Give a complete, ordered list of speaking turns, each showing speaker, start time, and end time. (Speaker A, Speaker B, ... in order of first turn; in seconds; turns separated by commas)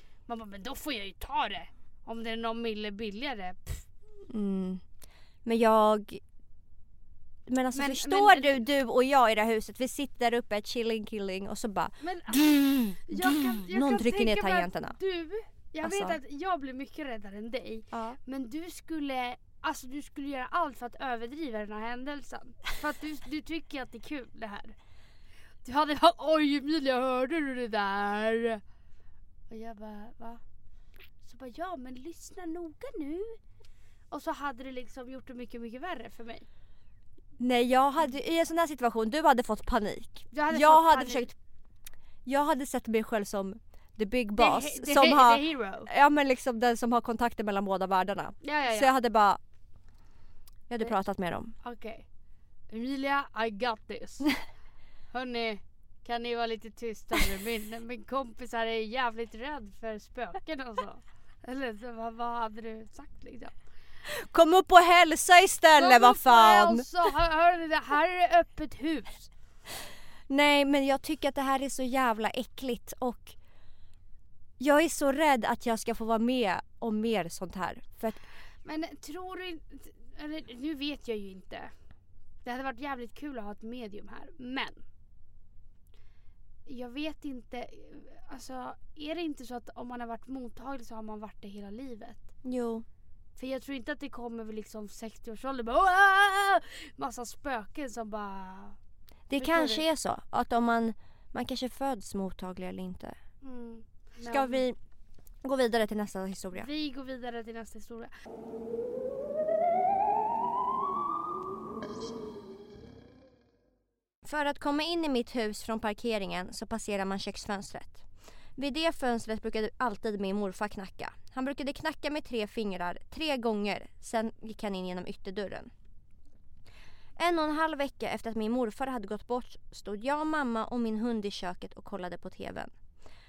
Speaker A: 0.3-3.9, Speaker B: 4.3-4.8, Speaker B: 5.4-6.2, Speaker B: 7.5-15.0, Speaker A: 7.7-8.6, Speaker A: 12.0-12.4, Speaker A: 13.0-24.8, Speaker B: 15.8-16.2, Speaker B: 17.9-18.2, Speaker A: 25.6-28.6, Speaker A: 29.5-30.4, Speaker A: 31.2-33.4, Speaker A: 34.1-36.5, Speaker B: 37.4-41.3, Speaker A: 40.3-41.3, Speaker B: 42.2-49.4, Speaker A: 44.4-45.9, Speaker A: 48.4-48.9, Speaker B: 50.7-51.5, Speaker A: 51.6-52.0, Speaker A: 52.7-54.3, Speaker A: 55.1-63.6, Speaker B: 64.0-66.9, Speaker A: 65.8-69.3, Speaker B: 70.3-73.4, Speaker B: 74.6-78.2, Speaker A: 78.6-81.7, Speaker A: 82.4-84.8, Speaker A: 86.7-92.2, Speaker B: 92.4-92.8, Speaker A: 93.3-98.8, Speaker B: 99.3-103.2, Speaker A: 99.3-99.8, Speaker A: 103.4-104.6, Speaker B: 104.2-104.8, Speaker B: 105.4-106.7, Speaker A: 106.5-108.1, Speaker B: 114.2-118.0, Speaker B: 118.5-125.7, Speaker B: 127.2-132.7